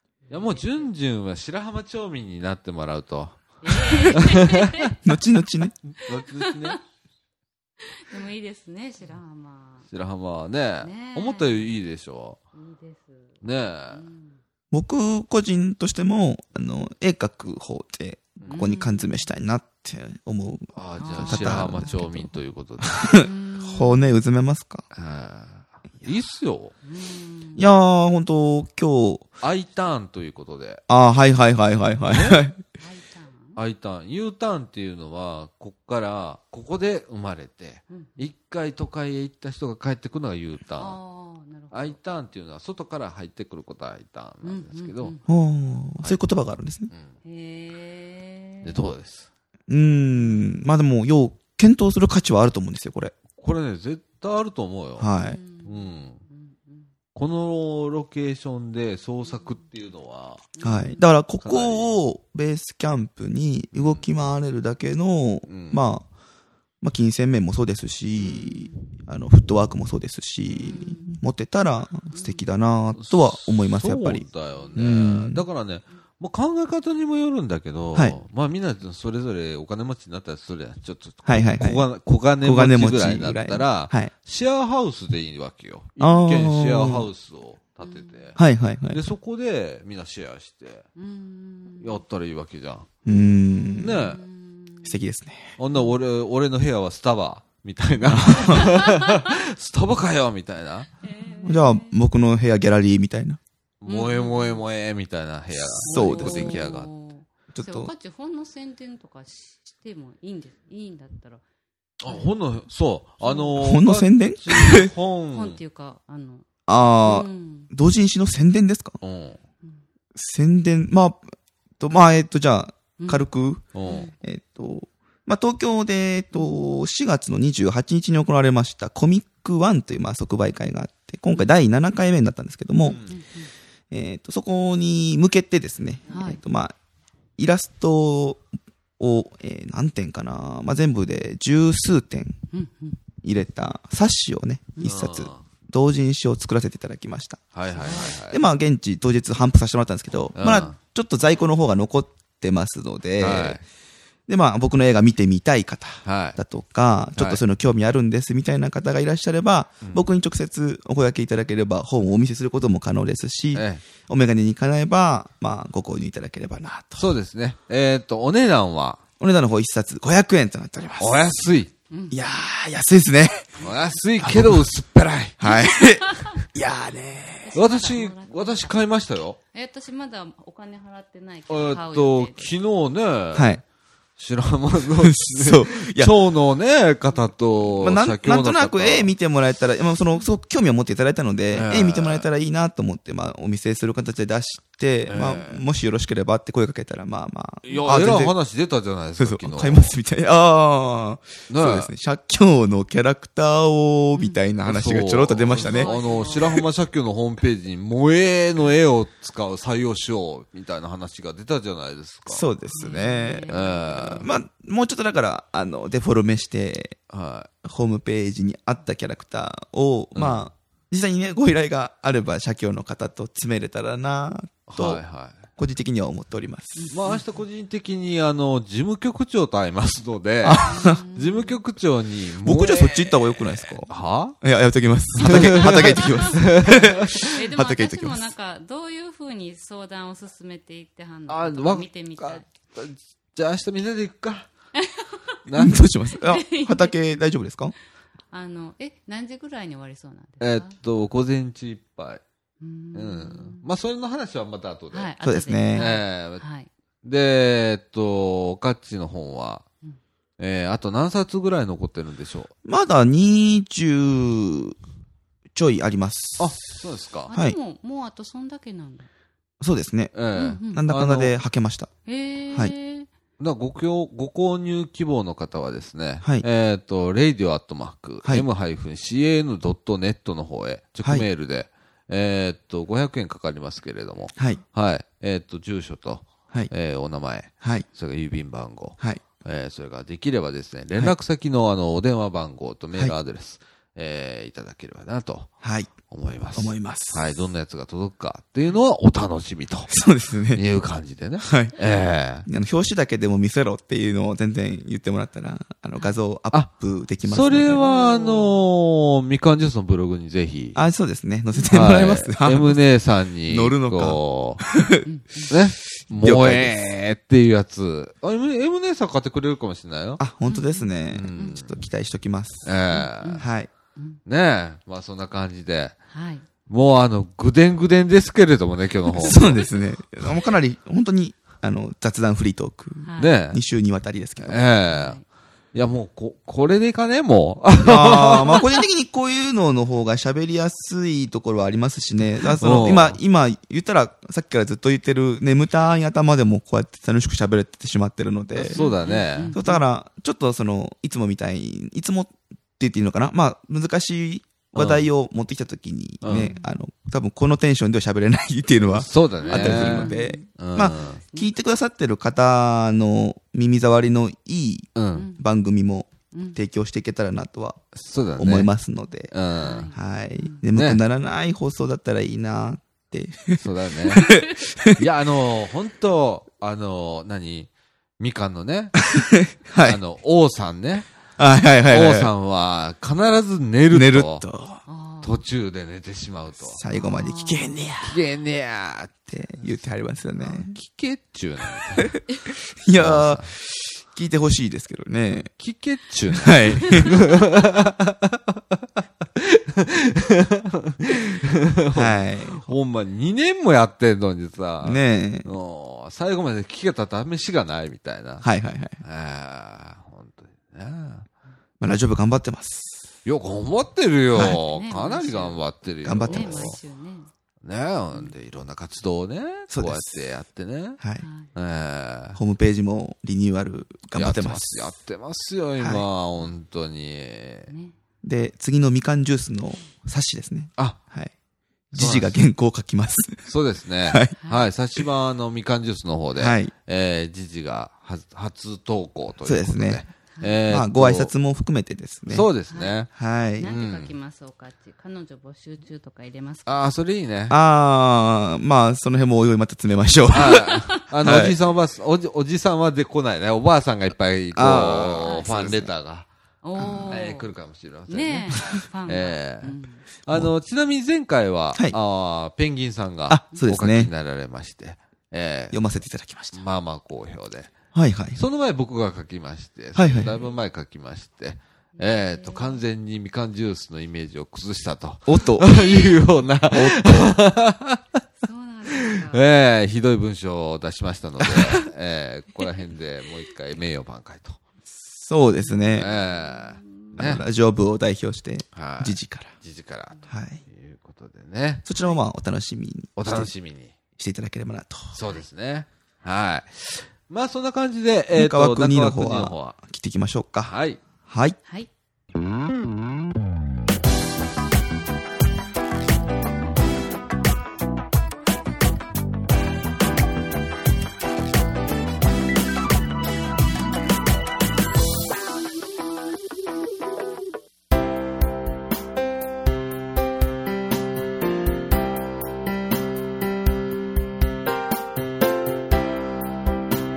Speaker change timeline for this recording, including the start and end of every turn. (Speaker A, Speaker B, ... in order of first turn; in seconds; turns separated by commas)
Speaker A: 0.3-0.9, Speaker B: 0.3-4.9, Speaker A: 3.6-5.0, Speaker C: 5.0-5.7, Speaker B: 5.9-6.8, Speaker A: 6.0-6.8, Speaker A: 7.8-9.9, Speaker B: 9.9-12.4, Speaker A: 10.8-11.8, Speaker A: 12.5-13.4, Speaker B: 13.4-14.0, Speaker A: 13.9-14.4, Speaker C: 14.7-22.3, Speaker A: 18.5-19.2, Speaker B: 20.8-23.2, Speaker A: 21.0-22.1, Speaker C: 23.0-24.9, Speaker A: 23.1-24.1, Speaker B: 24.9-26.7, Speaker A: 26.8-27.7, Speaker C: 27.6-29.3, Speaker B: 29.4-30.8, Speaker C: 30.9-32.6, Speaker B: 32.1-32.5, Speaker A: 32.8-33.6, Speaker B: 33.6-41.0, Speaker A: 40.8-42.0, Speaker B: 41.7-45.1, Speaker A: 44.4-45.2, Speaker C: 45.3-46.9, Speaker A: 47.2-48.8, Speaker B: 48.6-49.3, Speaker C: 49.7-53.1, Speaker B: 53.4-55.1, Speaker C: 55.0-55.4, Speaker A: 55.2-56.9, Speaker B: 55.6-56.2, Speaker B: 57.1-60.4, Speaker A: 60.5-61.0, Speaker C: 60.6-66.0, Speaker B: 61.4-62.0, Speaker B: 63.7-64.0, Speaker B: 65.5-65.8, Speaker C: 66.8-75.5, Speaker A: 68.2-68.7, Speaker B: 70.5-70.8, Speaker A: 70.6-71.2, Speaker A: 72.1-72.4, Speaker B: 73.0-88.4, Speaker C: 81.3-81.9, Speaker C: 82.4-84.1, Speaker C: 86.0-87.1, Speaker A: 87.8-88.3, Speaker C: 88.4-89.0, Speaker B: 88.9-90.9, Speaker A: 91.0-92.0, Speaker B: 91.8-92.9, Speaker C: 93.0-94.2, Speaker A: 93.1-95.0, Speaker B: 93.8-94.2, Speaker C: 94.8-95.5, Speaker B: 95.6-100.9, Speaker C: 98.1-98.7, Speaker A: 98.5-99.3, Speaker A: 101.0-102.0, Speaker C: 101.4-103.4, Speaker B: 103.8-106.9, Speaker A: 103.9-104.7, Speaker C: 105.8-106.6, Speaker A: 105.8-111.4, Speaker C: 107.5-107.9, Speaker B: 112.0-115.6, Speaker A: 113.2-113.5, Speaker C: 113.6-114.9, Speaker A: 114.5-116.5, Speaker C: 116.7-119.0, Speaker A: 117.0-117.7, Speaker B: 119.0-119.4, Speaker C: 120.2-121.2, Speaker C: 121.8-123.7, Speaker A: 123.0-123.3, Speaker B: 123.8-124.1, Speaker A: 123.8-124.1, Speaker C: 124.2-133.0, Speaker B: 132.8-133.2, Speaker A: 132.9-133.5, Speaker C: 133.9-136.8, Speaker A: 136.1-136.4, Speaker C: 137.4-138.4, Speaker C: 139.0-142.4, Speaker A: 142.5-143.0, Speaker C: 143.2-147.5, Speaker B: 144.8-145.4, Speaker B: 147.5-148.4, Speaker A: 147.8-148.2, Speaker C: 148.3-153.6, Speaker B: 150.3-150.8, Speaker B: 153.2-153.6, Speaker C: 154.3-167.1, Speaker B: 156.1-156.4, Speaker B: 157.2-157.4, Speaker B: 163.5-163.8, Speaker B: 167.0-169.0, Speaker C: 169.2-171.3, Speaker B: 171.0-171.7, Speaker A: 171.9-172.2, Speaker C: 172.1-173.6, Speaker B: 173.6-175.4, Speaker C: 174.2-174.6, Speaker C: 175.4-177.5, Speaker A: 175.8-176.4, Speaker A: 177.4-178.8, Speaker B: 177.5-179.4, Speaker A: 179.5-182.5, Speaker B: 181.5-183.6, Speaker C: 183.3-183.6, Speaker B: 184.2-189.1, Speaker C: 185.0-186.1, Speaker C: 187.8-198.4, Speaker B: 191.5-192.3, Speaker B: 195.1-195.6, Speaker B: 197.7-199.9, Speaker A: 197.7-198.0, Speaker C: 199.2-205.9, Speaker B: 201.5-201.9, Speaker A: 204.1-204.4, Speaker B: 204.7-212.5, Speaker A: 205.5-206.6, Speaker C: 212.3-217.0, Speaker A: 212.7-214.3, Speaker B: 213.5-214.3, Speaker B: 217.1-217.5, Speaker C: 217.6-225.0, Speaker B: 220.2-220.4, Speaker B: 224.7-225.4, Speaker C: 225.6-226.9, Speaker A: 226.8-227.2, Speaker B: 226.9-234.4, Speaker C: 230.4-231.0, Speaker A: 230.6-231.6, Speaker C: 232.4-233.9, Speaker C: 234.4-238.3, Speaker B: 235.2-237.3, Speaker A: 235.7-242.5, Speaker B: 241.3-244.5, Speaker A: 244.8-246.9, Speaker B: 245.5-245.8, Speaker C: 245.6-247.7, Speaker A: 248.3-250.8, Speaker B: 250.4-252.2, Speaker A: 252.6-253.6, Speaker B: 252.9-255.1, Speaker A: 254.9-256.7, Speaker C: 255.2-255.9, Speaker B: 255.7-256.4, Speaker B: 257.0-259.6, Speaker B: 260.4-262.5, Speaker C: 262.6-264.8, Speaker C: 265.6-266.6, Speaker B: 266.4-267.3, Speaker A: 267.3-269.1, Speaker C: 267.3-267.6, Speaker C: 269.6-271.9, Speaker B: 270.1-271.4, Speaker A: 270.4-270.9, Speaker A: 272.1-273.1, Speaker B: 273.4-295.5, Speaker C: 284.4-284.6, Speaker C: 295.6-295.9, Speaker B: 296.1-299.9, Speaker C: 296.6-297.2, Speaker C: 299.9-300.6, Speaker B: 300.5-302.5, Speaker C: 301.4-301.7, Speaker C: 302.5-307.8, Speaker B: 307.2-310.8, Speaker A: 307.8-308.6, Speaker C: 310.8-312.8, Speaker B: 311.7-314.6, Speaker C: 313.5-315.1, Speaker A: 315.0-315.5, Speaker B: 315.5-320.2, Speaker C: 316.2-316.8, Speaker C: 320.2-322.7, Speaker A: 320.5-321.6, Speaker B: 321.1-321.7, Speaker B: 322.6-323.4, Speaker A: 322.9-323.4, Speaker C: 323.4-323.7, Speaker B: 324.3-326.0, Speaker A: 326.1-326.5, Speaker B: 326.7-329.6, Speaker C: 329.1-334.6, Speaker A: 329.2-329.5, Speaker A: 333.0-333.4, Speaker B: 333.2-333.6, Speaker B: 334.4-335.2, Speaker A: 334.9-335.2, Speaker B: 335.7-338.7, Speaker C: 337.8-348.8, Speaker B: 342.6-343.2, Speaker B: 348.6-349.5, Speaker A: 348.7-349.8, Speaker C: 349.5-367.8, Speaker B: 354.7-355.1, Speaker B: 356.2-356.5, Speaker A: 356.3-356.8, Speaker B: 358.9-361.2, Speaker A: 359.4-360.5, Speaker A: 361.2-361.5, Speaker B: 365.0-365.3, Speaker A: 365.1-365.4, Speaker A: 366.3-366.6, Speaker B: 367.9-368.7, Speaker C: 368.4-369.3, Speaker B: 369.3-369.9, Speaker A: 369.6-370.6, Speaker C: 369.9-375.0, Speaker B: 370.7-371.0, Speaker B: 373.6-379.0, Speaker C: 379.1-380.0, Speaker B: 379.8-381.1, Speaker C: 381.4-382.3, Speaker B: 381.9-384.4, Speaker C: 383.9-384.8, Speaker A: 384.9-385.4, Speaker B: 385.2-386.8, Speaker C: 386.7-388.2, Speaker A: 386.9-387.8, Speaker B: 388.1-389.3, Speaker C: 389.3-390.8, Speaker B: 390.4-392.2, Speaker C: 392.7-395.5, Speaker B: 392.9-393.5, Speaker B: 395.5-398.8, Speaker C: 396.3-397.1, Speaker B: 399.4-408.5, Speaker C: 401.9-402.7, Speaker C: 404.8-405.5, Speaker C: 408.4-409.0, Speaker B: 409.0-411.3, Speaker C: 411.8-413.0, Speaker B: 413.2-416.8, Speaker A: 414.4-415.6, Speaker C: 416.0-416.7, Speaker A: 416.2-417.3, Speaker B: 417.6-421.0, Speaker C: 419.7-420.1, Speaker C: 421.0-421.2, Speaker A: 421.2-421.5, Speaker B: 421.5-422.4, Speaker C: 422.4-424.9, Speaker B: 424.1-427.7, Speaker C: 425.8-426.1, Speaker A: 427.7-427.9, Speaker C: 428.2-431.3, Speaker C: 431.9-433.5, Speaker B: 431.9-432.4, Speaker B: 433.4-441.3, Speaker C: 434.1-434.4, Speaker A: 434.4-434.7, Speaker C: 436.4-436.7, Speaker C: 439.4-440.0, Speaker C: 440.7-442.5, Speaker B: 442.3-443.1, Speaker A: 442.7-443.0, Speaker C: 443.1-443.7, Speaker A: 443.6-446.9, Speaker B: 443.6-444.1, Speaker B: 446.7-447.6, Speaker C: 447.5-451.6, Speaker B: 450.3-456.3, Speaker C: 454.6-455.9, Speaker A: 455.2-455.6, Speaker A: 456.6-457.5, Speaker C: 456.8-457.2, Speaker B: 457.1-459.8, Speaker A: 458.1-460.0, Speaker B: 460.3-465.8, Speaker C: 463.3-464.1, Speaker C: 465.7-466.6, Speaker B: 466.5-467.7, Speaker C: 467.9-468.4, Speaker B: 468.3-478.0, Speaker C: 469.9-470.4, Speaker A: 472.0-472.8, Speaker C: 475.3-475.7, Speaker C: 476.7-477.4, Speaker A: 478.4-479.4, Speaker B: 478.9-484.6, Speaker C: 481.4-481.8, Speaker C: 485.2-486.1, Speaker A: 485.7-487.1, Speaker B: 485.9-487.4, Speaker C: 487.2-489.5, Speaker B: 488.8-491.9, Speaker C: 490.3-490.6, Speaker C: 491.9-493.5, Speaker B: 493.2-493.9, Speaker C: 494.2-495.2, Speaker B: 495.1-499.8, Speaker C: 498.3-500.8, Speaker B: 500.7-501.0, Speaker C: 501.3-501.6